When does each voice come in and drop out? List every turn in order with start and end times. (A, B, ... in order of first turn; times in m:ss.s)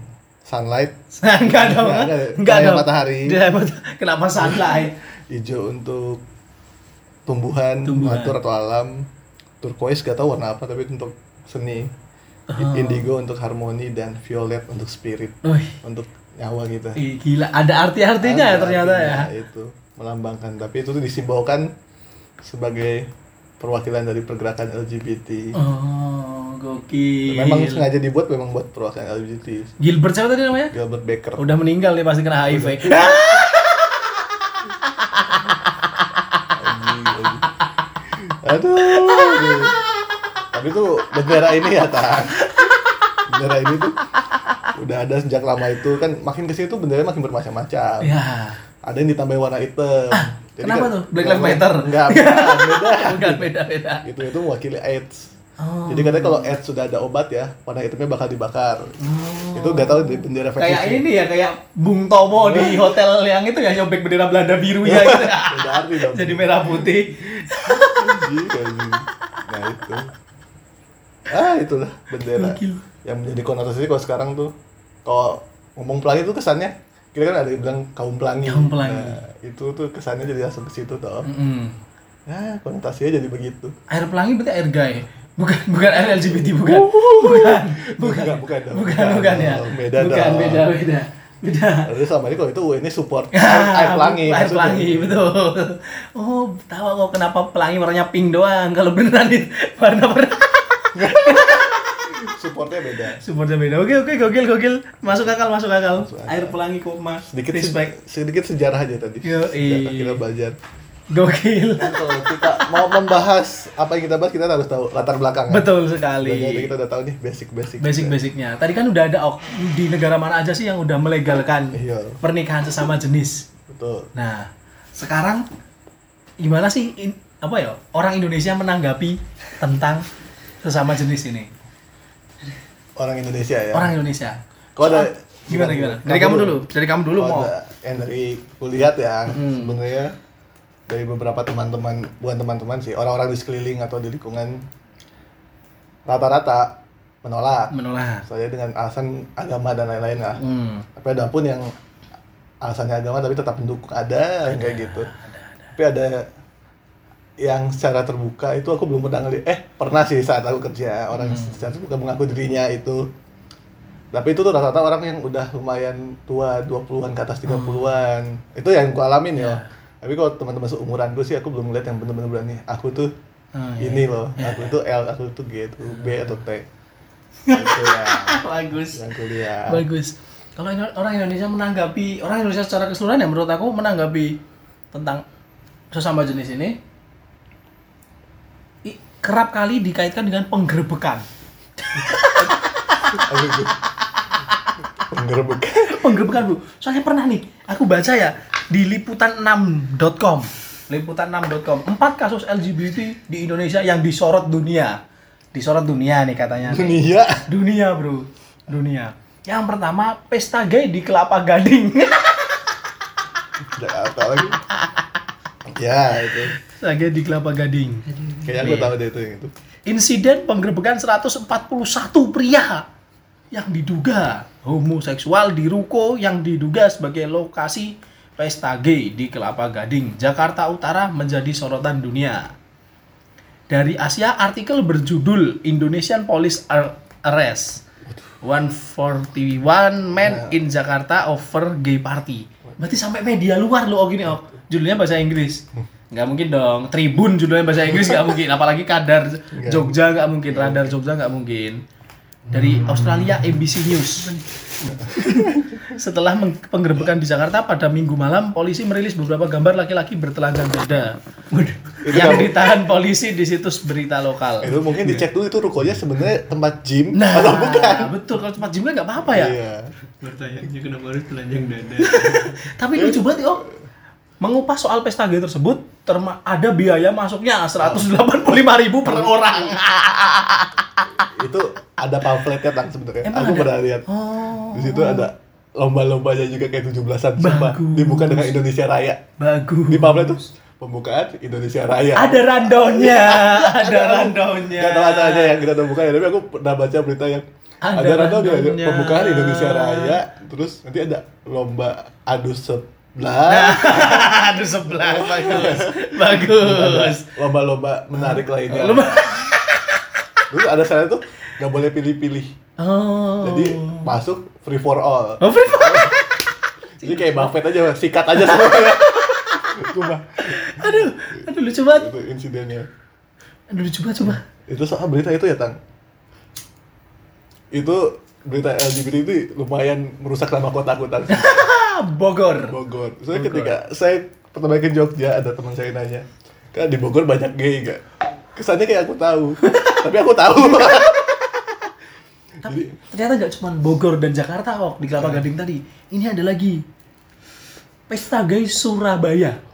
0:00.4-0:03.4 A
0:01.2-0:04.9 B
0:04.4-0:06.2 A
0:07.2-0:09.0 A
0:07.8-0:08.3 B
0:09.6-0:11.9 A
0:12.5-0:13.0 B
0:12.6-0:17.0 A
0:15.4-0:15.8 B
0:17.0-0:19.3 B
0:18.2-0:21.7 A
0:22.4-0:23.1 A
0:23.6-0:25.6 A
0:25.5-0:27.8 B
0:27.3-0:29.8 A
0:29.8-0:30.7 B
0:30.7-0:31.5 A
0:31.4-0:36.6 B
0:32.4-0:33.4 A
0:36.5-0:37.5 A
0:38.1-0:39.8 A
0:38.9-0:39.7 B
0:40.5-0:42.7 A
0:42.3-0:43.2 B
0:43.2-0:44.1 A
0:44.3-0:44.6 B
0:44.6-0:48.1 A
0:48.0-0:48.6 B
0:48.8-0:55.3 A
0:50.1-0:54.0 B
0:55.6-0:56.5 B
0:55.9-0:59.0 A
0:59.0-1:08.2 B
0:59.5-1:01.0 A
1:02.4-1:03.0 A
1:04.8-1:10.1 A
1:11.3-1:14.5 A
1:12.3-1:12.8 B
1:15.0-1:21.3 A
1:18.4-1:19.2 B
1:21.2-1:21.7 B
1:22.3-1:23.7 A
1:23.9-1:31.9 B
1:26.1-1:30.7 A
1:31.8-1:35.2 A
1:33.3-1:42.2 B
1:40.9-1:43.2 A
1:43.2-1:47.9 B
1:46.0-1:46.6 A
1:47.3-1:50.6 A
1:49.2-1:50.2 B
1:51.1-1:52.9 B
1:51.8-1:55.7 A
1:55.5-1:56.7 B
1:56.2-1:58.1 A
1:57.8-2:03.4 B
2:01.7-2:02.2 A
2:03.7-2:04.1 A
2:04.1-2:05.4 B
2:06.4-2:10.1 B
2:10.6-2:11.5 B
2:13.0-2:14.0 A
2:13.7-2:17.5 B
2:14.8-2:16.6 A
2:17.2-2:20.1 A
2:19.3-2:19.8 B
2:20.9-2:24.7 A
2:26.1-2:27.7 A
2:27.7-2:28.2 B
2:28.2-2:30.4 A
2:30.4-2:30.8 B
2:30.9-2:31.7 A
2:32.6-2:35.1 A
2:34.5-2:35.7 B
2:35.7-2:36.2 A
2:37.4-2:43.1 A
2:41.1-2:41.6 B
2:44.1-2:53.1 A
2:47.4-2:48.0 B
2:49.3-2:49.7 B
2:53.5-2:54.8 B
2:53.8-2:56.7 A
2:57.4-3:04.4 B
2:57.5-2:59.9 A
3:04.9-3:05.2 B
3:05.9-3:06.8 B
3:08.8-3:11.2 B
3:11.8-3:13.6 B
3:13.1-3:13.7 A
3:15.0-3:16.2 A
3:15.8-3:25.0 B
3:25.5-3:32.8 B
3:26.6-3:27.5 A
3:33.6-3:34.6 A
3:35.6-3:36.6 A
3:36.6-3:38.9 B
3:38.4-3:39.5 A
3:39.9-3:42.8 B
3:43.5-3:52.5 B
3:53.7-3:57.8 B
3:58.1-3:58.4 A
3:58.4-4:11.8 B
4:00.2-4:00.6 A
4:07.9-4:08.2 A
4:09.5-4:11.0 A
4:12.5-4:25.2 B
4:14.9-4:15.8 A
4:22.0-4:22.7 A
4:24.6-4:28.1 A
4:27.1-4:29.6 B
4:29.2-4:29.9 A
4:30.2-4:32.7 C
4:32.2-4:33.6 B
4:33.0-4:33.7 A
4:34.4-4:41.3 B
4:37.8-4:38.1 A
4:39.0-4:39.8 A
4:41.2-4:44.0 A
4:43.2-4:45.3 B
4:44.6-4:49.2 A
4:47.4-4:48.5 B
4:49.4-4:50.4 B
4:49.9-5:09.5 A
4:52.1-4:55.6 B
4:57.8-5:00.2 B
5:03.5-5:07.3 B
5:08.2-5:10.4 B
5:10.5-5:12.5 A
5:12.8-5:14.1 B
5:13.4-5:16.2 A
5:15.4-5:17.5 B
5:17.0-5:22.9 A
5:18.5-5:22.1 B
5:23.7-5:24.4 B
5:24.2-5:25.8 A
5:27.7-5:31.7 A
5:31.3-5:32.8 B
5:32.6-5:41.3 A
5:33.3-5:33.8 B
5:39.6-5:40.0 B
5:40.8-5:41.6 B
5:42.6-5:43.0 A
5:42.6-5:46.8 B
5:45.1-5:45.4 A
5:48.1-5:49.6 B